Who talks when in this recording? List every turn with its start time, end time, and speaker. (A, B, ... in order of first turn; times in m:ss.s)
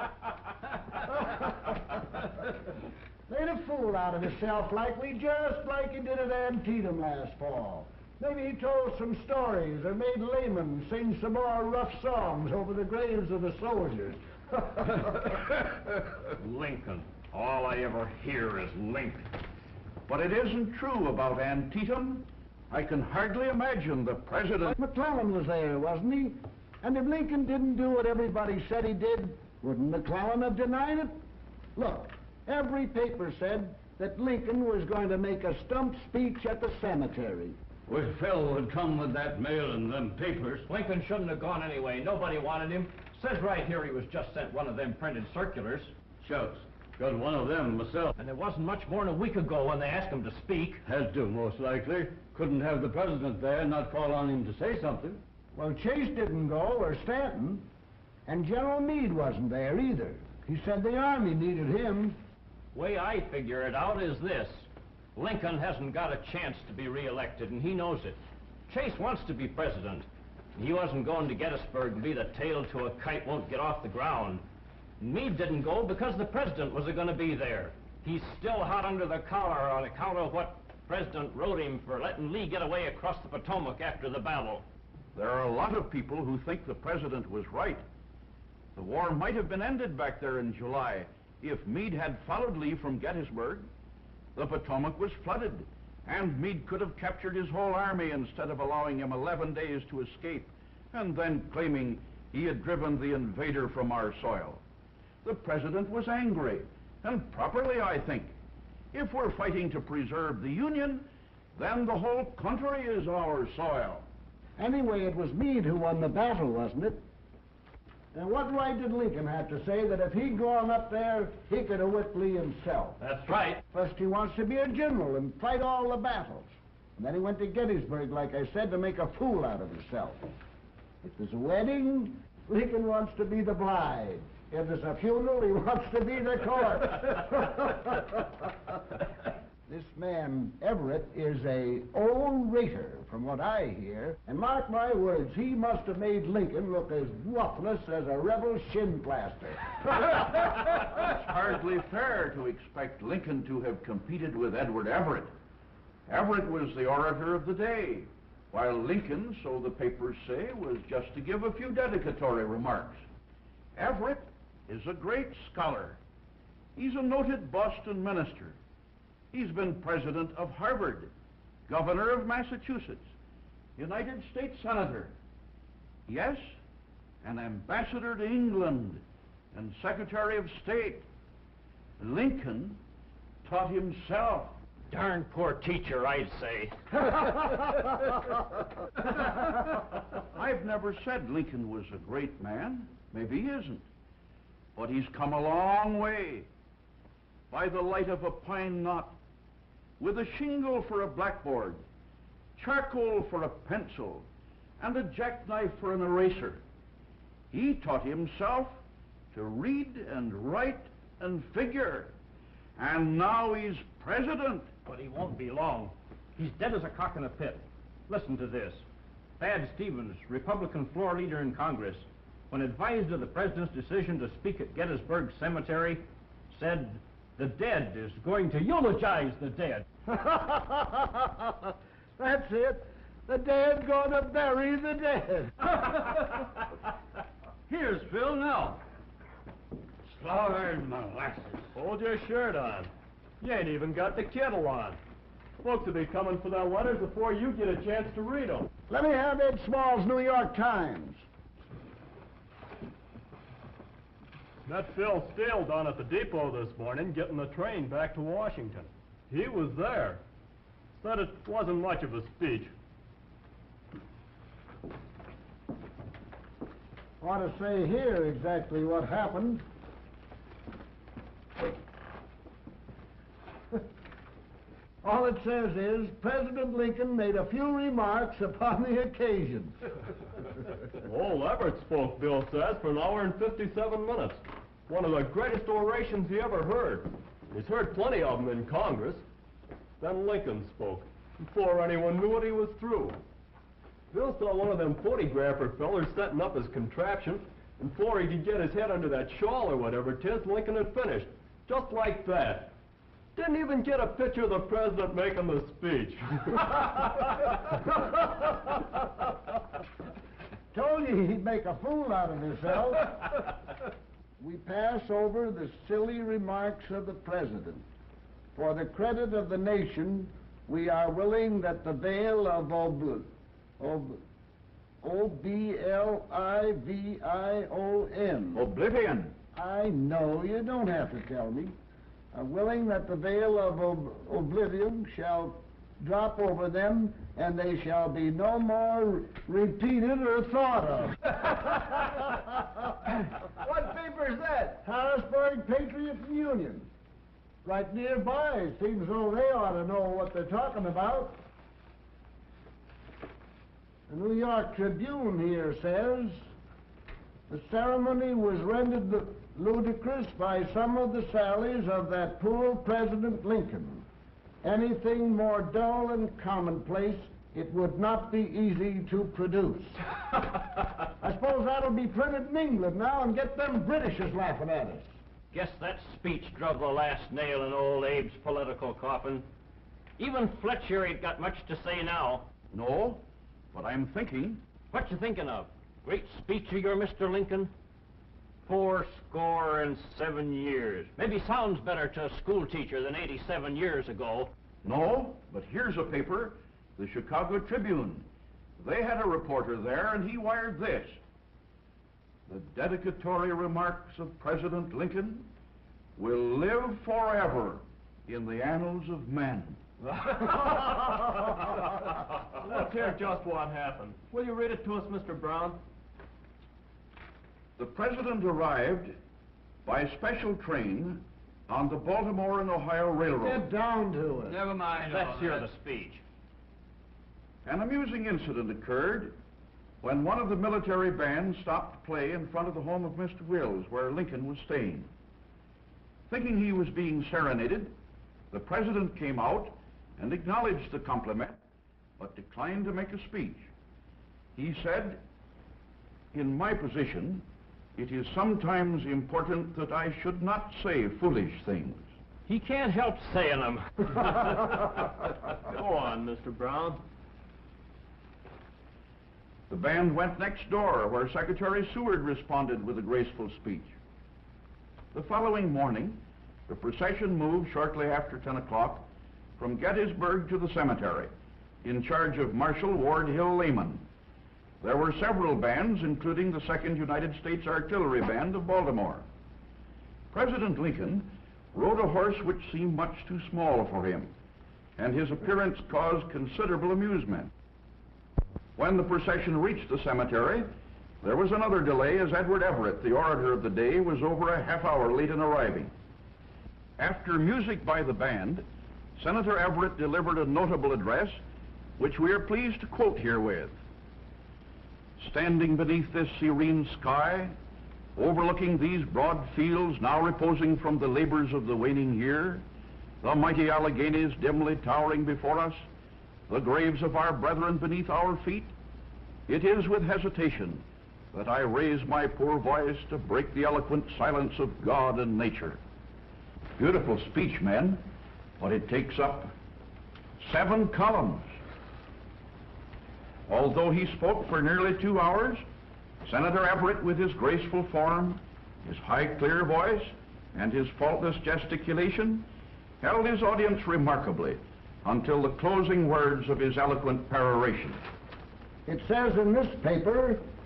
0:03.3-0:15.2 A
0:16.3-0:19.3 B
0:20.1-0:24.7 C
0:24.6-0:31.1 A
0:31.8-0:37.6 A
0:37.9-0:40.6 D
0:40.6-0:45.9 B
0:46.2-0:48.1 D
0:48.2-0:50.8 B
0:50.8-0:55.2 D
0:55.5-0:57.7 A
0:58.3-1:02.2 A
1:02.7-1:14.4 B
1:15.0-1:24.6 B
1:25.1-1:27.8 C
1:28.8-1:33.7 C
1:34.4-1:44.6 C
1:45.2-1:48.3 C
1:48.9-1:54.0 C
1:54.6-1:57.0 A
1:58.1-2:03.0 A
2:03.0-2:03.6 B
2:03.7-2:10.2 A
2:11.0-2:18.5 A
2:19.7-2:29.8 A
2:30.1-2:35.3 C
2:36.1-2:43.0 C
2:43.8-2:46.0 C
2:46.8-2:48.6 C
2:49.3-2:51.1 C
2:51.7-2:53.1 C
2:53.8-2:55.1 C
2:56.1-2:56.4 C
2:57.2-3:01.1 C
3:02.0-3:02.8 C
3:03.4-3:04.6 C
3:04.9-3:07.6 B
3:10.3-3:13.8 C
3:14.8-3:16.5 C
3:17.5-3:19.2 C
3:20.0-3:21.8 C
3:22.6-3:24.3 C
3:24.8-3:26.6 C
3:27.5-3:28.8 C
3:29.3-3:32.1 C
3:32.8-3:34.7 C
3:34.8-3:38.8 B
3:39.4-3:49.9 B
3:50.1-3:55.7 A
4:01.7-4:05.0 E
4:05.6-4:08.7 E
4:08.9-4:11.2 A
4:14.6-4:20.2 E
4:20.9-4:22.7 E
4:27.2-4:29.6 A
4:35.0-4:39.9 A
4:41.0-4:49.2 E
4:50.0-4:53.2 E
4:54.1-5:02.7 E
5:03.3-5:07.1 E
5:10.7-5:13.3 A
5:14.4-5:17.8 A
5:18.5-5:23.3 A
5:23.8-5:24.2 A
5:25.0-5:28.7 A
5:28.5-5:29.3 C
5:29.5-5:31.7 A
5:32.3-5:46.9 A
5:47.6-5:51.4 A
5:54.1-5:56.4 A
5:57.5-6:04.0 A
6:04.6-6:09.9 A
6:11.2-6:15.1 A
6:15.5-6:19.4 B
6:20.2-6:22.5 B
6:22.7-6:24.6 C
6:24.9-6:27.7 B
6:28.6-6:34.5 B
6:34.8-6:38.3 C
6:38.8-6:41.2 C
6:42.5-6:45.5 C
6:46.2-6:49.8 C
6:50.1-6:51.9 E
6:52.5-6:55.8 E
6:57.8-6:59.2 C
6:59.8-7:03.6 C
7:03.3-7:04.7 A
7:04.9-7:06.2 B
7:07.6-7:09.3 C
7:10.0-7:15.1 C
7:16.3-7:17.9 C
7:18.5-7:21.6 C
7:22.2-7:23.7 C
7:24.5-7:25.2 C
7:26.3-7:27.4 C
7:28.0-7:32.0 C
7:32.5-7:34.6 B
7:35.7-7:37.0 E
7:39.7-7:43.9 C
7:45.1-7:49.1 C
7:49.6-7:51.3 C
7:51.8-7:54.0 C
7:54.8-7:59.2 C
8:00.3-8:04.3 C
8:05.0-8:07.5 C
8:08.8-8:10.7 C
8:11.2-8:15.9 C
8:17.0-8:18.6 C
8:19.2-8:21.4 C
8:22.0-8:23.8 C
8:25.2-8:27.5 C
8:28.2-8:32.6 C
8:33.2-8:35.8 C
8:36.5-8:38.7 C
8:39.5-8:45.8 C
8:46.8-8:48.0 C
8:48.6-8:49.5 C
8:50.4-8:51.4 C
8:53.5-8:55.6 C
8:56.2-9:02.4 C
9:03.0-9:08.0 C
9:08.8-9:10.4 A